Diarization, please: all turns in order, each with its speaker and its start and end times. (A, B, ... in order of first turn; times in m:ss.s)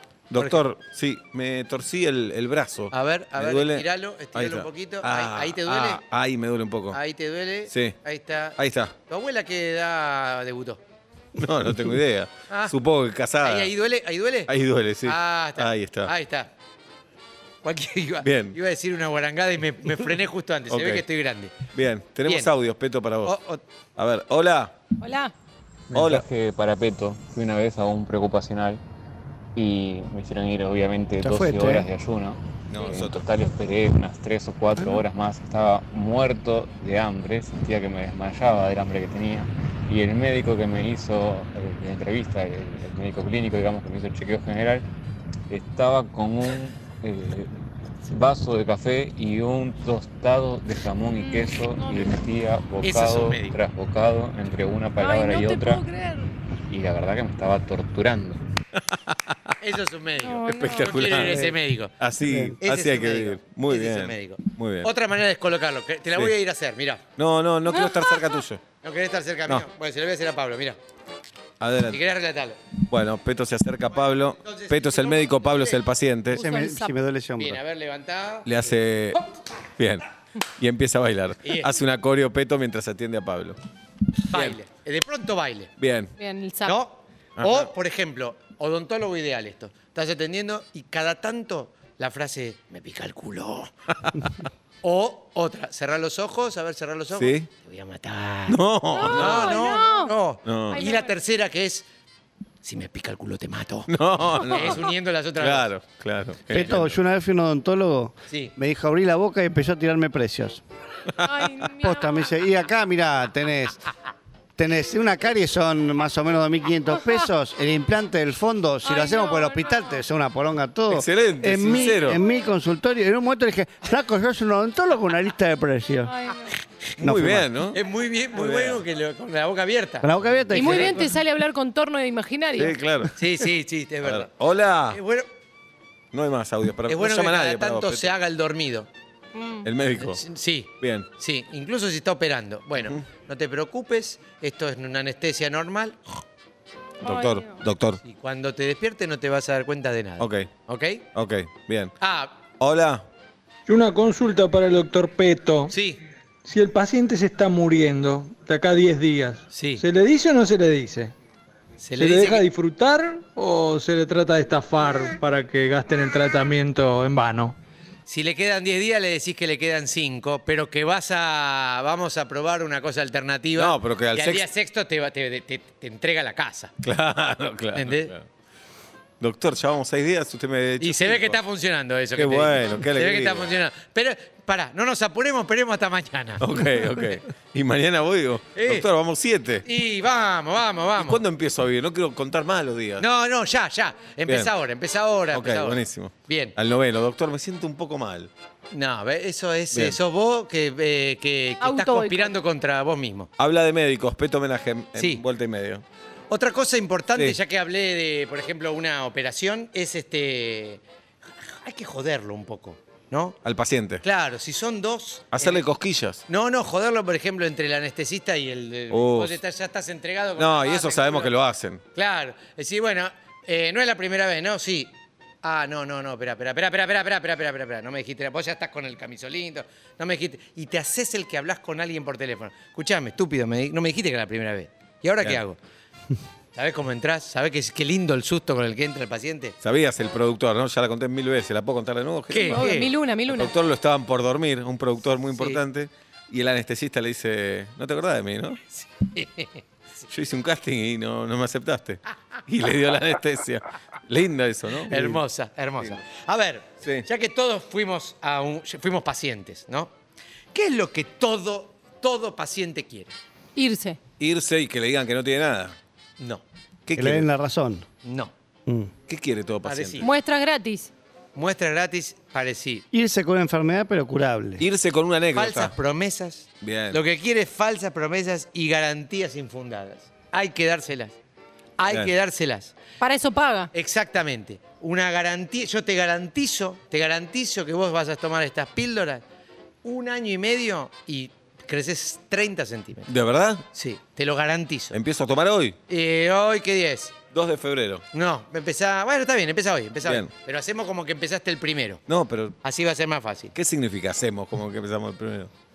0:00.3-0:07.0 A
0:00.4-0:00.6 B
0:02.9-0:06.0 B
0:06.9-0:08.6 B
0:07.7-0:08.0 A
0:08.6-0:08.9 A
0:09.1-0:10.8 B
0:11.4-0:13.7 A
0:12.5-0:12.7 B
0:13.4-0:14.5 B
0:14.5-0:16.1 A
0:15.0-0:16.5 B
0:17.6-0:21.5 B
0:18.2-0:18.6 A
0:20.7-0:21.0 A
0:21.7-0:23.3 A
0:23.2-0:23.6 B
0:24.0-0:24.7 A
0:25.0-0:25.3 C
0:25.9-0:28.8 D
0:25.9-0:26.2 A
0:29.5-0:44.9 D
0:31.2-0:31.9 E
0:32.7-0:33.2 A
0:45.5-0:55.8 D
0:51.2-0:52.1 C
0:52.8-0:53.6 B
0:55.0-0:56.3 C
0:56.7-0:58.4 D
0:58.9-0:59.5 A
0:59.6-1:01.9 B
1:00.2-1:01.4 C
1:00.5-1:04.9 A
1:02.2-1:02.6 E
1:02.6-1:07.0 B
1:07.2-1:08.6 A
1:07.7-1:08.2 C
1:08.8-1:10.8 B
1:11.6-1:12.0 A
1:11.9-1:12.6 B
1:12.9-1:16.4 A
1:14.0-1:15.8 B
1:16.3-1:17.0 C
1:16.4-1:17.6 E
1:17.4-1:18.7 B
1:18.4-1:19.2 A
1:19.8-1:20.1 A
1:20.6-1:23.6 A
1:21.4-1:21.7 B
1:24.3-1:24.6 A
1:24.3-1:25.7 B
1:25.8-1:26.1 A
1:26.2-1:26.8 C
1:26.6-1:33.7 B
1:27.4-1:27.7 A
1:34.0-1:34.3 A
1:34.8-1:38.6 B
1:37.1-1:37.5 A
1:38.5-1:39.6 A
1:38.9-1:40.1 C
1:39.1-1:41.8 B
1:40.4-1:40.8 A
1:40.7-1:41.1 C
1:42.6-1:43.9 B
1:43.9-1:47.0 A
1:44.4-1:45.7 B
1:46.5-1:50.6 E
1:51.2-1:51.7 A
1:51.2-1:52.3 C
1:51.8-1:53.8 E
1:54.6-2:06.1 E
1:57.0-1:57.3 C
1:58.8-2:00.0 C
2:00.9-2:02.2 A
2:06.1-2:06.5 C
2:07.0-2:07.8 A
2:07.0-2:07.5 E
2:07.7-2:11.0 B
2:08.3-2:08.8 A
2:10.0-2:11.1 E
2:10.5-2:12.8 C
2:12.6-2:13.5 A
2:13.2-2:14.3 B
2:14.0-2:15.0 A
2:14.9-2:15.3 B
2:16.1-2:18.1 A
2:16.9-2:18.9 B
2:19.3-2:19.7 C
2:19.6-2:20.2 A
2:20.0-2:26.0 B
2:20.8-2:21.1 A
2:27.0-2:27.6 C
2:27.0-2:28.0 A
2:28.0-2:31.0 B
2:30.2-2:30.5 A
2:31.1-2:32.0 A
2:32.0-2:32.3 B
2:32.6-2:33.0 A
2:33.7-2:35.7 F
2:35.7-2:36.0 B
2:36.4-2:41.1 F
2:39.5-2:39.8 B
2:41.8-2:42.4 B
2:42.0-2:47.6 F
2:48.1-2:56.7 B
2:53.6-2:54.4 A
2:56.8-2:58.2 A
2:57.7-2:58.1 B
2:59.2-3:01.4 A
3:00.8-3:07.2 B
3:02.2-3:03.5 A
3:06.4-3:09.6 A
3:08.5-3:08.9 B
3:09.6-3:11.2 B
3:11.0-3:13.0 A
3:13.0-3:16.5 B
3:15.3-3:18.3 A
3:18.7-3:23.3 B
3:19.7-3:20.0 A
3:21.6-3:22.3 C
3:23.4-3:25.8 A
3:25.0-3:25.2 B
3:26.3-3:30.8 B
3:31.4-3:33.4 B
3:33.4-3:34.0 A
3:34.0-3:35.6 B
3:35.3-3:36.2 A
3:36.3-3:41.3 B
3:38.9-3:39.4 A
3:40.4-3:41.8 A
3:41.9-3:55.6 B
3:56.5-3:59.6 B
3:59.6-4:02.7 A
4:02.3-4:02.9 B
4:02.4-4:03.5 C
4:03.3-4:08.6 A
4:05.3-4:05.6 B
4:08.7-4:09.6 B
4:10.1-4:15.2 A
4:14.9-4:19.9 B
4:20.5-4:23.1 B
4:23.6-4:24.0 C
4:24.2-4:25.8 A
4:26.2-4:26.4 B
4:26.8-4:27.3 A
4:27.0-4:27.8 E
4:28.0-4:28.3 B
4:28.7-4:28.9 E
4:29.1-4:30.0 A
4:29.6-4:30.1 B
4:30.0-4:30.9 C
4:31.3-4:32.8 B
4:32.9-4:34.6 E
4:34.6-4:35.7 A
4:35.3-4:41.2 B
4:36.6-4:37.0 A
4:41.8-4:42.8 B
4:43.0-4:43.7 C
4:43.7-4:49.2 B
4:49.8-4:53.1 B
4:53.1-4:53.6 A
4:53.7-4:55.0 B
4:54.9-4:55.8 A
4:55.9-4:57.1 B
4:57.3-4:58.0 A
4:58.1-5:02.0 B
5:00.0-5:00.3 A
5:02.1-5:02.6 A
5:02.6-5:03.5 B
5:03.5-5:05.5 A